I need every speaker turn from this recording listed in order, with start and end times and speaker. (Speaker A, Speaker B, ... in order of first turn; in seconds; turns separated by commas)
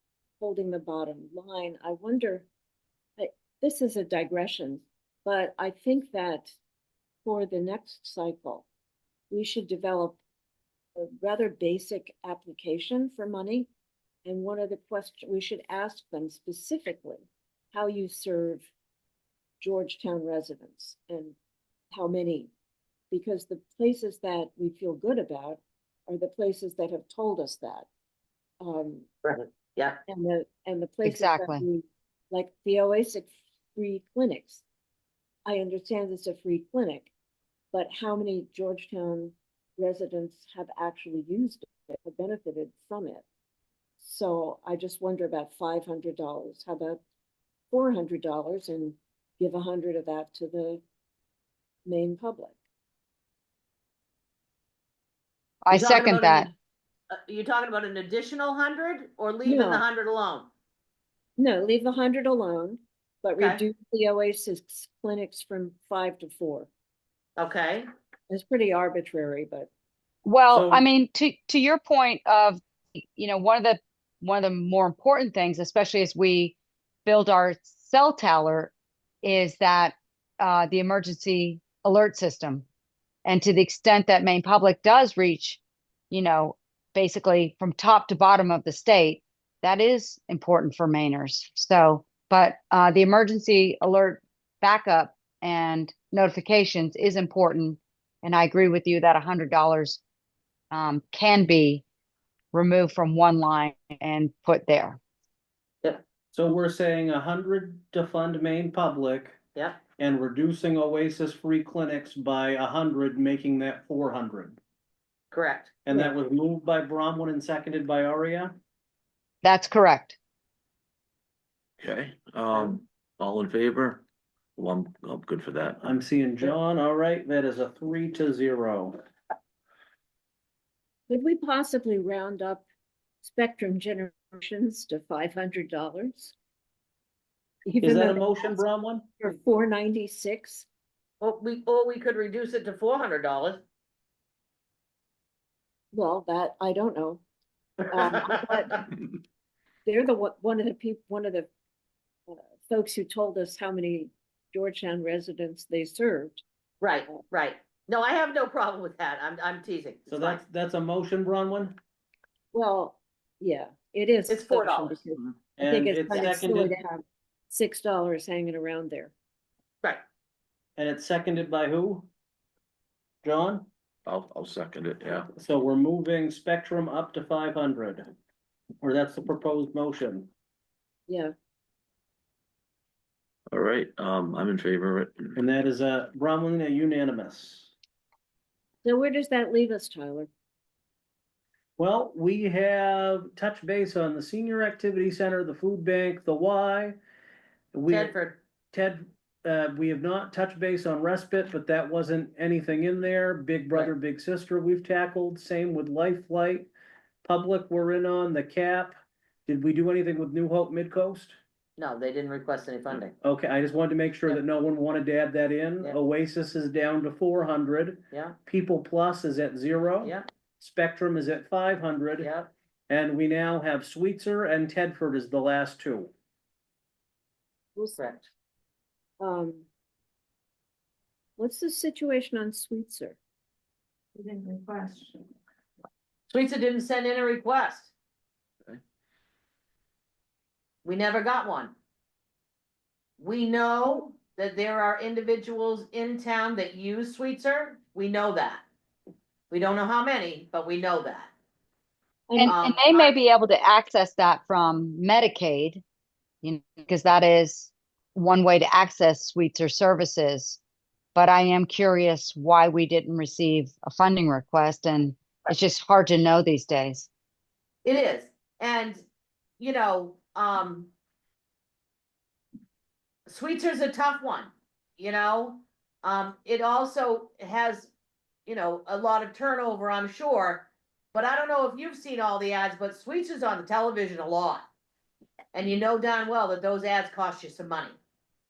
Speaker A: 0.4-2.5, Speaker A: 3.2-6.5, Speaker A: 7.2-8.7, Speaker A: 9.3-10.2, Speaker A: 11.0-13.7, Speaker A: 14.2-18.7, Speaker A: 19.6-21.4, Speaker A: 21.9-22.5, Speaker A: 23.1-27.9, Speaker A: 28.6-29.1, Speaker B: 29.2-30.0, Speaker A: 30.1-34.6, Speaker C: 31.1-31.6, Speaker A: 35.5-37.1, Speaker A: 37.7-43.2, Speaker A: 44.0-47.0, Speaker A: 47.7-50.8, Speaker A: 51.9-52.6, Speaker C: 55.6-56.5, Speaker B: 55.7-56.5, Speaker B: 57.1-60.5, Speaker A: 59.5-59.8, Speaker A: 61.4-66.7, Speaker B: 63.4-63.6, Speaker B: 67.4-67.9, Speaker A: 68.3-69.7, Speaker C: 70.2-82.7, Speaker D: 70.5-70.8, Speaker C: 83.2-100.0, Speaker C: 100.7-101.8, Speaker C: 102.5-105.0, Speaker D: 106.3-109.4, Speaker B: 109.5-109.8, Speaker D: 110.0-114.6, Speaker B: 115.3-115.8, Speaker D: 115.8-118.5, Speaker C: 119.4-120.2, Speaker E: 121.8-124.0, Speaker E: 124.6-125.9, Speaker D: 125.8-129.0, Speaker A: 131.1-132.7, Speaker A: 133.2-136.3, Speaker A: 137.7-138.6, Speaker D: 137.8-139.1, Speaker A: 139.2-140.7, Speaker B: 141.2-143.6, Speaker A: 145.9-147.2, Speaker A: 147.9-148.8, Speaker B: 148.1-148.7, Speaker A: 149.9-151.5, Speaker A: 152.3-156.4, Speaker B: 156.8-160.4, Speaker D: 160.1-161.8, Speaker A: 162.5-169.1, Speaker B: 164.3-165.3, Speaker D: 165.6-166.7, Speaker D: 170.8-172.1, Speaker D: 173.2-173.7, Speaker E: 174.1-175.3, Speaker D: 175.3-178.1, Speaker D: 178.8-180.3, Speaker A: 181.1-181.3, Speaker E: 183.5-185.4, Speaker D: 185.4-187.7, Speaker A: 188.8-190.3, Speaker D: 191.8-197.0, Speaker D: 197.7-198.1, Speaker B: 197.9-198.4, Speaker D: 198.7-206.7, Speaker D: 207.2-211.4, Speaker B: 211.8-213.2, Speaker D: 213.2-222.3, Speaker B: 218.1-218.4, Speaker B: 220.0-220.3, Speaker B: 222.2-222.5, Speaker D: 222.9-226.1, Speaker A: 227.8-228.0, Speaker B: 228.0-228.3, Speaker A: 229.2-229.7, Speaker A: 231.4-233.2, Speaker B: 234.2-235.2, Speaker B: 236.3-237.9, Speaker B: 240.8-241.7, Speaker B: 243.2-248.7, Speaker B: 249.5-251.3, Speaker A: 252.3-252.6, Speaker C: 252.4-255.8, Speaker B: 252.4-253.1, Speaker C: 256.4-260.6, Speaker C: 261.1-267.1, Speaker B: 267.9-269.0, Speaker B: 269.6-270.9, Speaker B: 273.3-277.9, Speaker B: 278.5-284.7, Speaker B: 285.5-288.0